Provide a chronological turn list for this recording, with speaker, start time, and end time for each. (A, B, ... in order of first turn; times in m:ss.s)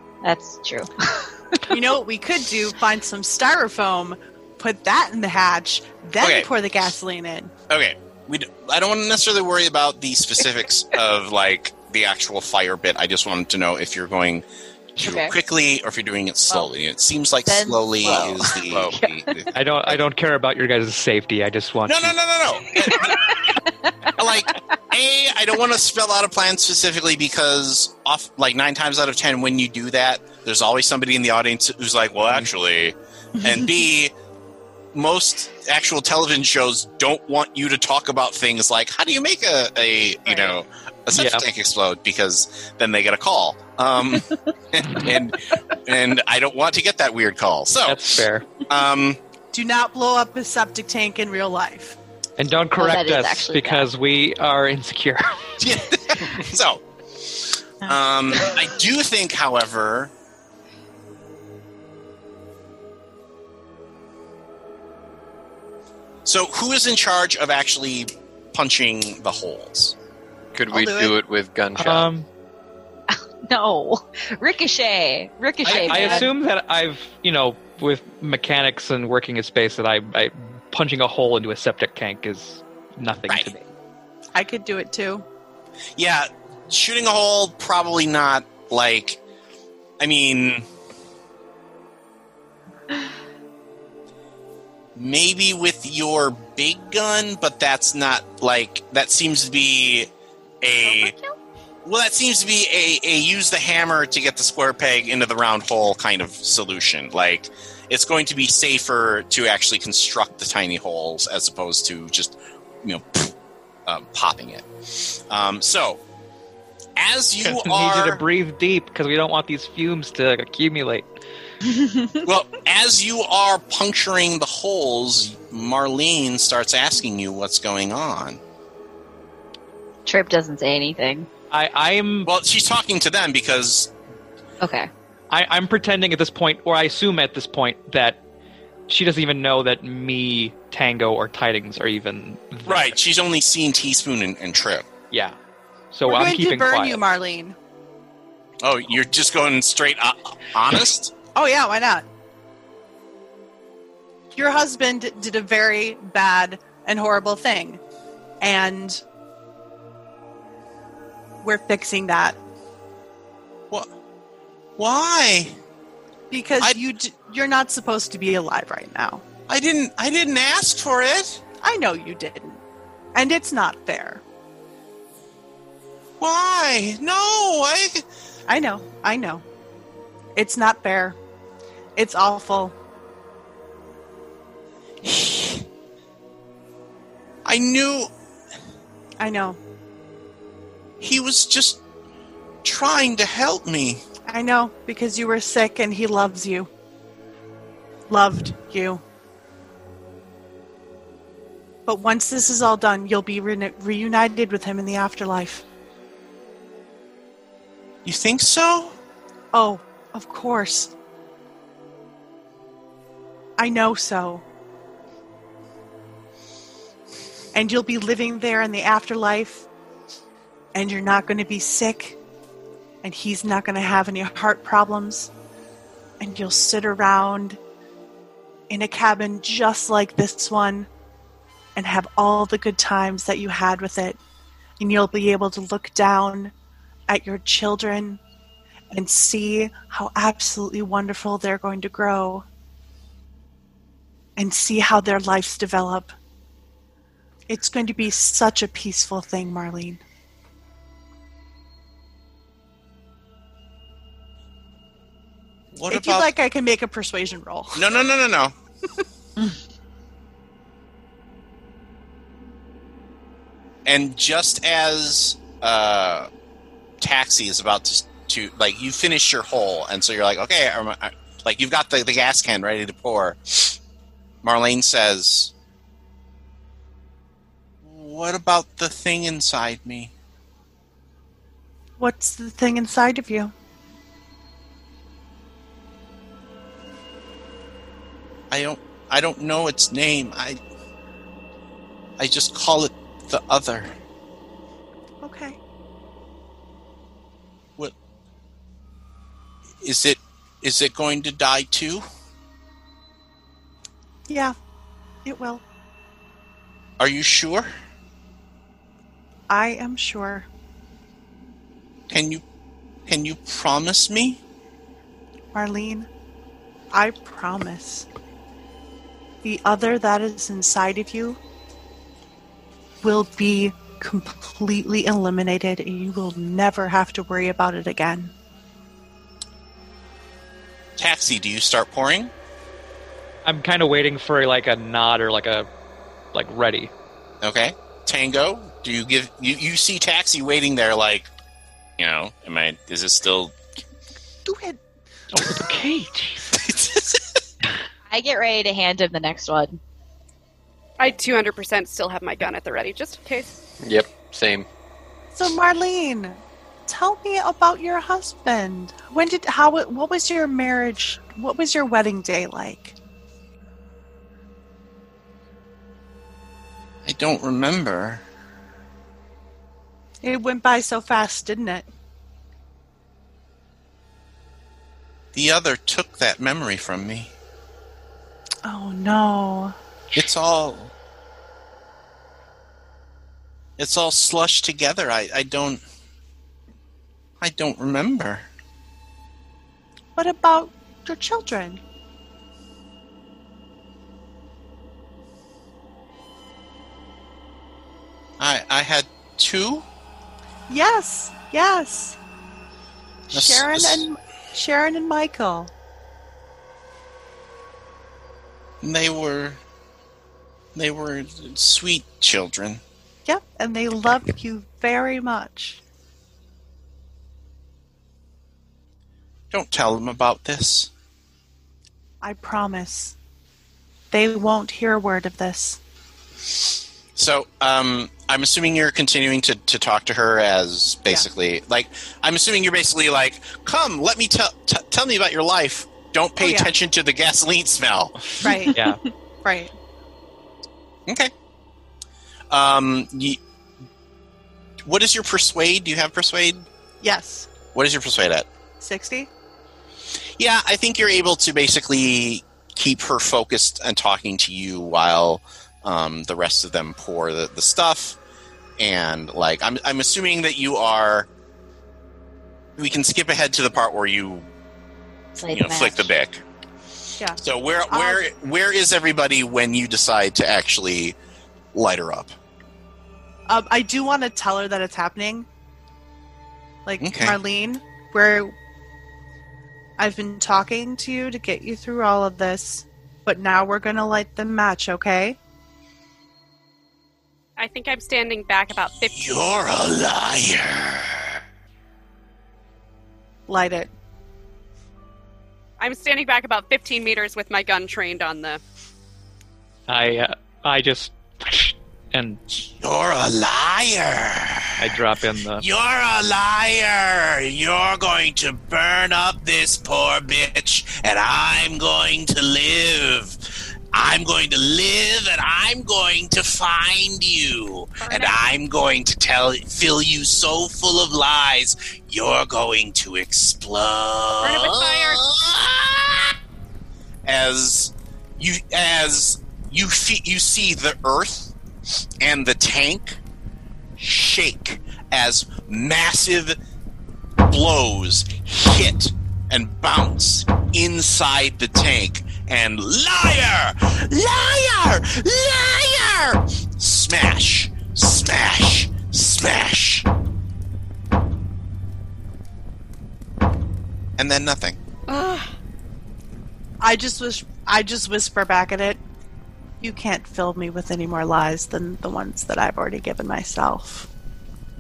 0:00.2-0:01.7 A
0:01.7-0:07.5 B
0:06.2-0:06.5 C
0:07.7-0:14.4 C
0:15.0-0:15.4 A
0:15.0-0:20.0 C
0:17.5-0:19.5 A
0:19.5-0:22.2 D
0:21.8-0:23.6 C
0:22.9-0:24.1 A
0:24.2-0:34.1 C
0:34.9-0:49.2 C
0:41.1-0:41.4 D
0:47.8-0:48.6 D
0:49.5-0:52.0 B
0:52.4-0:55.6 D
0:52.8-0:53.9 A
0:55.6-1:00.1 C
1:06.2-1:10.0 C
1:10.5-1:12.1 E
1:10.7-1:11.2 B
1:11.8-1:12.3 D
1:13.1-1:16.3 A
1:15.6-1:23.7 D
1:15.7-1:16.3 B
1:24.4-1:25.2 B
1:26.0-1:29.2 C
1:30.0-1:30.6 C
1:35.0-1:40.1 C
1:40.6-1:41.2 C
1:40.8-1:41.4 A
1:41.8-1:53.3 C
1:53.9-1:56.0 C
1:57.0-1:58.2 C
1:57.4-2:01.1 D
2:01.6-2:02.2 A
2:02.2-2:08.4 C
2:10.1-2:11.3 A
2:11.5-2:12.3 D
2:12.2-2:13.9 C
2:14.6-2:14.9 A
2:15.3-2:18.2 D
2:18.9-2:23.0 D
2:22.7-2:24.9 C
2:25.1-2:25.4 D
2:25.9-2:27.0 D
2:26.1-2:27.6 B
2:28.6-2:31.1 C
2:31.4-2:32.0 B
2:34.3-2:37.8 B
2:38.4-2:39.0 B
2:41.4-2:42.4 B
2:44.8-2:45.6 C
2:46.3-2:49.2 B
2:49.5-2:51.4 C
2:51.6-2:52.6 B
2:53.2-2:54.2 B
2:56.2-2:58.0 C
2:58.5-2:59.4 B
3:00.4-3:01.2 B
3:02.0-3:02.8 B
3:05.0-3:05.7 C
3:07.4-3:08.1 C
3:09.2-3:09.6 B
3:11.0-3:11.8 C
3:12.6-3:14.0 C
3:14.3-3:16.7 B
3:18.1-3:19.0 B
3:21.9-3:25.6 B
3:28.0-3:29.0 C
3:29.5-3:30.9 B
3:33.6-3:34.4 B
3:37.5-3:39.7 B
3:40.7-3:42.2 B
3:43.0-3:45.3 B
3:46.2-3:47.6 B
3:48.7-3:50.9 B
3:51.8-3:54.2 B
3:54.8-3:56.5 B
3:57.1-3:58.2 B
3:58.9-4:02.4 B
4:04.4-4:06.1 B
4:07.5-4:10.0 B
4:15.7-4:16.3 C
4:15.9-4:17.9 B
4:17.8-4:18.5 C
4:23.8-4:26.3 C
4:27.0-4:33.8 C
4:34.4-4:35.5 C
4:37.8-4:40.1 C
4:42.0-4:43.5 B
4:48.5-4:50.6 C
4:52.2-4:53.9 C
4:55.2-4:55.6 B
4:59.8-5:02.0 C
5:04.3-5:04.6 B
5:05.2-5:05.6 B
5:07.0-5:07.7 C
5:09.5-5:10.5 B
5:12.1-5:12.4 C
5:13.1-5:14.4 C
5:15.5-5:16.1 B
5:16.9-5:18.1 B
5:19.4-5:21.4 B
5:23.0-5:28.3 B
5:31.0-5:32.3 C
5:33.4-5:35.7 D
5:36.3-5:36.9 D
5:37.4-5:41.3 C
5:42.0-5:43.6 C
5:44.4-5:44.8 B
5:45.3-5:46.5 D
5:46.5-5:47.2 C
5:48.1-5:49.8 A
5:51.0-5:53.5 F
5:53.8-5:54.7 E
5:55.3-6:03.0 B
6:07.0-6:08.2 C
6:10.2-6:11.9 B
6:15.3-6:17.3 C
6:18.6-6:19.8 B
6:20.1-6:20.9 C
6:23.8-6:25.8 C
6:27.4-6:28.5 C
6:30.2-6:31.8 B
6:38.4-6:39.8 C
6:40.7-6:42.2 B
6:43.3-6:45.7 B
6:43.3-6:44.1 C
6:48.8-6:49.6 C
6:50.8-6:52.8 C
6:53.3-6:55.8 B
6:59.5-7:00.9 C
7:02.2-7:03.2 B
7:04.1-7:05.8 B
7:07.2-7:18.2 C
7:16.4-7:16.7 B
7:18.4-7:18.8 B
7:18.5-7:19.0 A
7:18.7-7:19.0 D
7:19.4-7:19.7 B
7:21.1-7:21.3 C
7:22.5-7:23.4 C
7:24.8-7:26.7 C
7:27.0-7:27.5 B
7:27.7-7:28.5 C
7:28.8-7:29.3 B
7:30.4-7:38.2 C
7:38.8-7:41.3 C
7:42.8-7:44.5 C
7:45.4-7:46.1 A
7:45.5-7:46.4 C
7:47.4-7:51.2 C
7:47.9-7:48.2 B
7:51.7-7:52.3 C
7:53.5-7:55.5 B
7:56.9-7:58.5 B
7:57.0-7:57.4 C
8:00.0-8:05.4 B
8:07.6-8:09.4 F
8:09.1-8:11.4 C
8:13.5-8:13.9 B
8:15.8-8:18.6 F
8:19.9-8:22.4 D
8:22.7-8:25.0 C
8:24.8-8:25.6 D
8:25.6-8:33.4 C
8:33.9-8:46.4 C
8:38.0-8:38.4 F
8:44.4-8:45.2 F
8:47.2-8:51.5 C
8:52.2-8:53.2 C
8:54.0-8:56.6 C
8:57.5-9:10.1 C
9:14.2-9:14.8 C
9:15.1-9:15.4 F
9:16.8-9:19.0 B
9:19.8-9:24.1 B